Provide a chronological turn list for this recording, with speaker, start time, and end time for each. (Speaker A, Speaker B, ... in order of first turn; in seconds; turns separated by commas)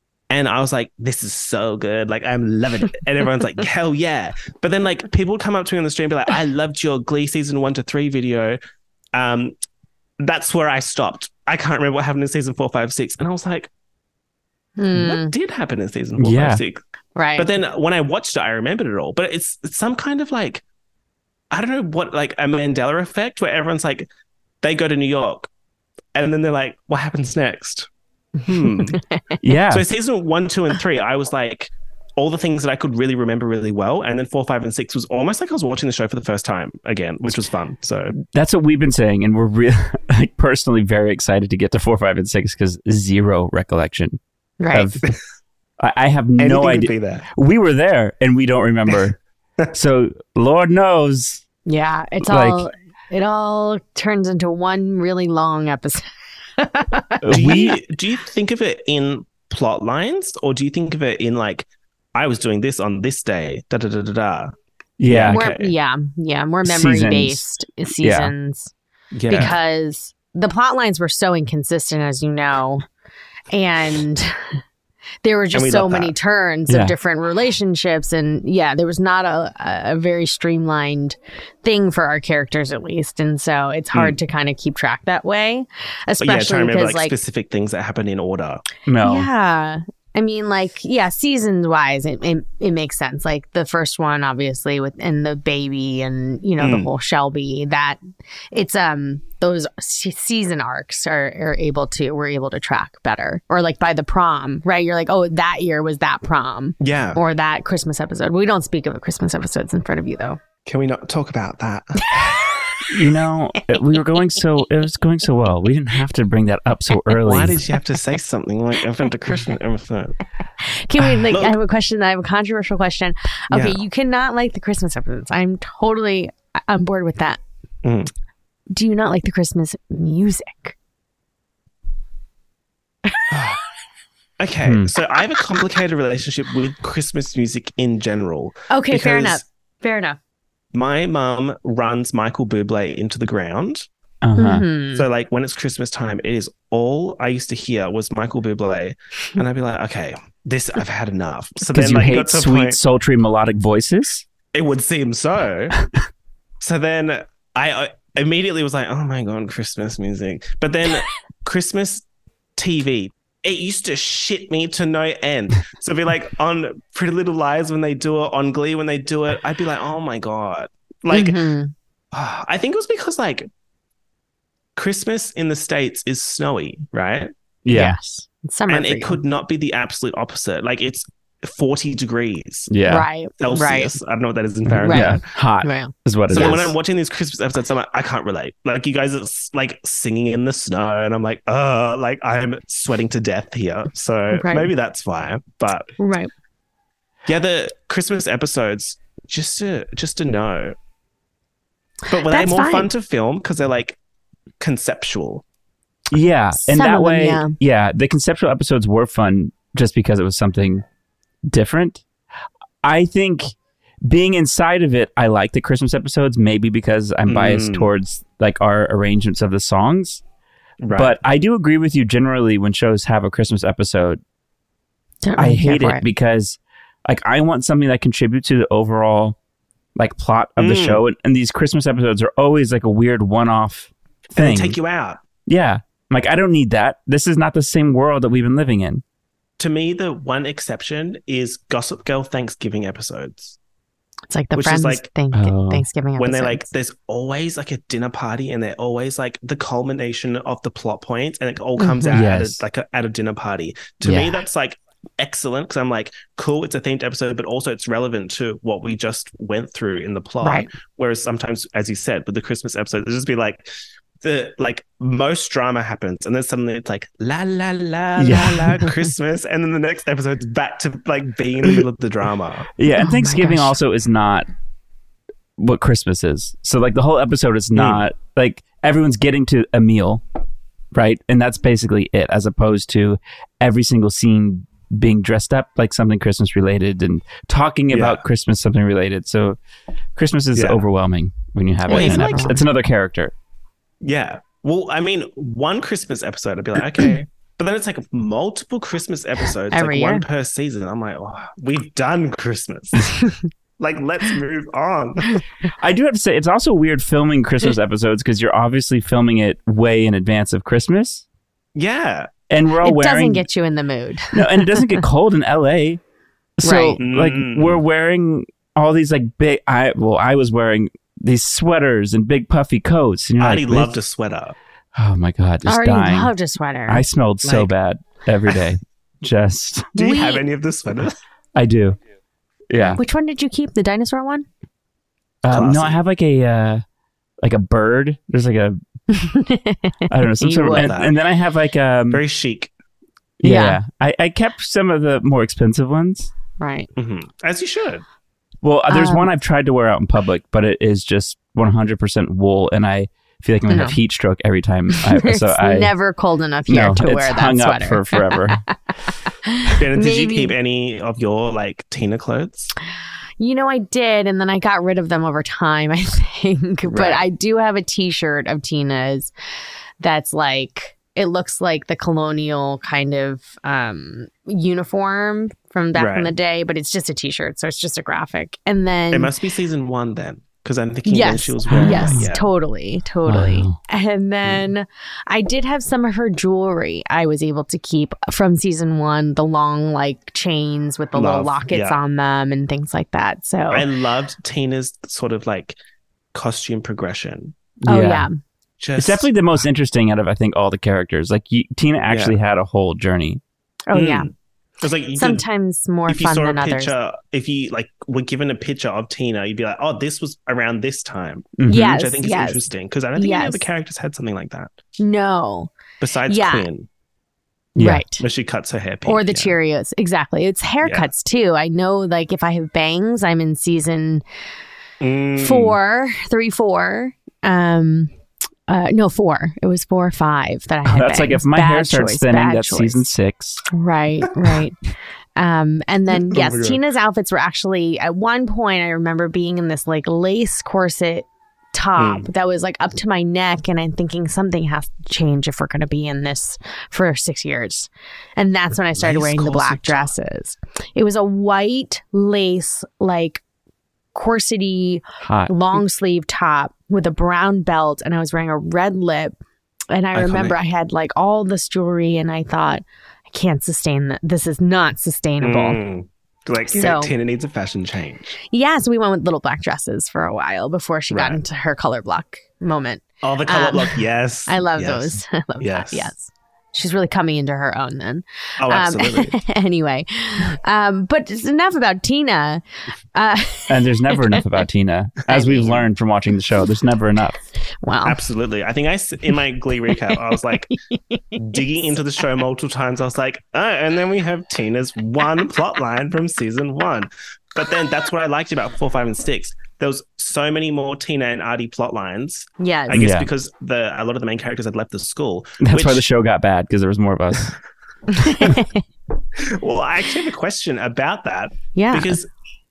Speaker A: 0.3-8.6, Speaker A: 9.1-9.6, Speaker A: 10.2-13.7, Speaker B: 14.8-15.3, Speaker A: 14.9-16.8, Speaker C: 16.2-16.6, Speaker B: 17.1-17.5, Speaker A: 17.4-20.6, Speaker A: 21.5-24.1, Speaker A: 24.6-25.5, Speaker A: 26.1-27.9, Speaker A: 28.5-29.0, Speaker B: 28.5-29.3, Speaker C: 29.4-29.9, Speaker A: 29.7-38.2, Speaker C: 38.3-44.2, Speaker B: 44.6-44.9, Speaker C: 44.7-45.0, Speaker C: 45.8-49.2, Speaker A: 46.4-47.3, Speaker C: 49.7-51.4, Speaker B: 51.7-56.0, Speaker C: 52.3-52.6, Speaker B: 56.6-57.6, Speaker C: 57.2-57.8, Speaker A: 57.3-64.5, Speaker C: 65.0-65.4, Speaker A: 65.1-65.7, Speaker B: 65.3-68.7, Speaker C: 66.7-67.4, Speaker C: 68.0-68.3, Speaker A: 69.1-69.6, Speaker B: 69.3-72.8, Speaker B: 73.5-74.4, Speaker B: 75.2-87.1, Speaker A: 75.5-76.1, Speaker C: 76.7-76.9, Speaker A: 86.2-88.6, Speaker C: 88.9-89.3, Speaker B: 89.0-98.0, Speaker A: 96.6-96.9, Speaker B: 98.5-110.4, Speaker A: 106.8-107.2, Speaker A: 110.7-112.0, Speaker C: 112.9-117.6, Speaker A: 117.2-120.2, Speaker B: 120.7-127.4, Speaker A: 121.3-121.6, Speaker A: 123.5-123.8, Speaker A: 127.8-128.1, Speaker B: 128.7-130.8, Speaker A: 133.3-133.6, Speaker A: 134.4-139.4, Speaker C: 134.7-134.9, Speaker B: 138.7-140.2, Speaker A: 140.7-143.9, Speaker C: 144.2-144.7, Speaker B: 144.4-145.1, Speaker A: 145.0-152.8, Speaker C: 151.7-154.2, Speaker A: 154.5-155.7, Speaker A: 156.6-162.0, Speaker A: 162.6-171.4, Speaker B: 171.1-171.7, Speaker A: 172.1-173.5, Speaker A: 174.8-177.3, Speaker C: 177.7-178.0, Speaker B: 177.7-179.2, Speaker A: 178.7-182.7, Speaker C: 182.7-183.1, Speaker B: 182.9-183.9, Speaker A: 183.4-185.2, Speaker C: 184.7-186.7, Speaker B: 184.8-186.6, Speaker A: 186.3-195.9, Speaker B: 194.3-194.7, Speaker B: 196.0-196.3, Speaker A: 197.3-200.8, Speaker A: 202.1-204.0, Speaker B: 202.1-202.9, Speaker A: 204.6-205.4, Speaker C: 206.1-210.8, Speaker B: 206.6-207.5, Speaker C: 211.5-212.0, Speaker C: 212.8-213.5, Speaker C: 214.1-220.2, Speaker A: 217.3-217.9, Speaker A: 220.8-221.2, Speaker C: 220.9-224.2, Speaker B: 225.2-226.0, Speaker C: 225.4-229.4, Speaker C: 230.0-234.8, Speaker A: 230.6-231.0, Speaker A: 234.3-235.2, Speaker C: 235.5-239.0, Speaker A: 239.6-243.6, Speaker B: 244.3-246.7, Speaker A: 244.6-245.1, Speaker C: 245.3-245.9, Speaker A: 246.2-263.7, Speaker C: 252.1-252.6, Speaker C: 254.0-254.4, Speaker B: 260.4-260.7, Speaker A: 264.2-272.7, Speaker C: 268.2-268.7, Speaker C: 272.8-274.5, Speaker B: 273.0-273.7, Speaker C: 275.6-280.2, Speaker A: 277.8-278.1, Speaker C: 280.9-289.6, Speaker A: 287.9-288.2, Speaker C: 290.2-293.3, Speaker A: 290.6-290.8, Speaker B: 291.9-292.6, Speaker A: 291.9-292.6, Speaker A: 294.0-303.1, Speaker B: 299.7-300.2, Speaker A: 303.8-305.4, Speaker C: 305.8-311.2, Speaker A: 311.8-312.3, Speaker C: 312.5-313.4, Speaker B: 312.8-314.9, Speaker C: 314.4-316.0, Speaker C: 316.6-323.9, Speaker B: 316.6-317.0, Speaker A: 317.0-317.8, Speaker A: 323.4-324.6, Speaker C: 324.9-326.3, Speaker B: 325.7-327.0, Speaker C: 326.9-329.9, Speaker A: 327.4-327.7, Speaker A: 330.0-331.2, Speaker B: 330.0-330.4, Speaker C: 331.6-332.0, Speaker C: 332.7-333.0, Speaker B: 333.0-334.5, Speaker C: 335.4-336.8, Speaker A: 335.5-336.0, Speaker C: 337.4-338.8, Speaker B: 339.1-340.9, Speaker C: 340.1-342.2, Speaker A: 340.7-341.1, Speaker A: 342.1-342.7, Speaker C: 343.4-346.3, Speaker B: 343.4-343.8, Speaker B: 346.6-346.9, Speaker A: 347.0-348.0, Speaker C: 348.6-355.9, Speaker B: 348.9-349.3, Speaker B: 353.7-354.0, Speaker B: 355.0-358.7, Speaker C: 356.7-358.6, Speaker B: 359.5-360.5, Speaker A: 359.8-362.7, Speaker B: 363.4-369.3, Speaker A: 366.9-367.2, Speaker B: 370.0-379.3, Speaker A: 375.9-376.3, Speaker A: 379.1-382.5, Speaker B: 381.1-393.9, Speaker C: 381.7-382.3, Speaker C: 383.3-383.8, Speaker A: 391.1-392.0, Speaker A: 393.7-395.8, Speaker A: 396.3-397.6, Speaker C: 397.9-398.3, Speaker B: 397.9-398.4, Speaker A: 398.8-399.3, Speaker C: 399.0-403.4, Speaker A: 402.1-402.4, Speaker B: 403.9-404.3, Speaker A: 403.9-405.4, Speaker B: 405.1-406.9, Speaker A: 406.1-414.7, Speaker C: 411.6-411.9, Speaker B: 411.7-413.7, Speaker B: 415.0-415.7, Speaker A: 416.0-416.9, Speaker B: 416.3-416.7, Speaker C: 417.8-418.0, Speaker B: 417.8-418.2, Speaker A: 418.2-419.6, Speaker B: 419.1-424.2, Speaker A: 420.8-421.1, Speaker A: 425.0-425.8, Speaker B: 425.4-428.1, Speaker B: 428.7-433.1, Speaker C: 430.9-433.6, Speaker B: 433.7-434.8, Speaker B: 435.4-453.4, Speaker A: 436.3-436.8, Speaker A: 442.0-442.3, Speaker A: 449.0-450.1, Speaker B: 454.1-459.4, Speaker C: 455.2-455.5, Speaker B: 459.9-465.8, Speaker A: 460.1-460.6, Speaker A: 465.4-468.4, Speaker B: 466.7-467.1, Speaker B: 468.5-482.6, Speaker A: 471.1-471.4, Speaker A: 473.2-476.1, Speaker A: 478.6-479.4, Speaker B: 483.1-484.4, Speaker C: 483.7-487.4, Speaker B: 485.3-485.8, Speaker A: 485.4-485.6, Speaker B: 487.8-488.2, Speaker A: 488.0-490.7, Speaker B: 490.9-491.6, Speaker A: 491.4-506.0, Speaker B: 502.6-503.0, Speaker C: 502.9-503.3, Speaker C: 505.6-507.6, Speaker B: 508.2-508.8, Speaker A: 509.4-512.3, Speaker B: 511.7-512.2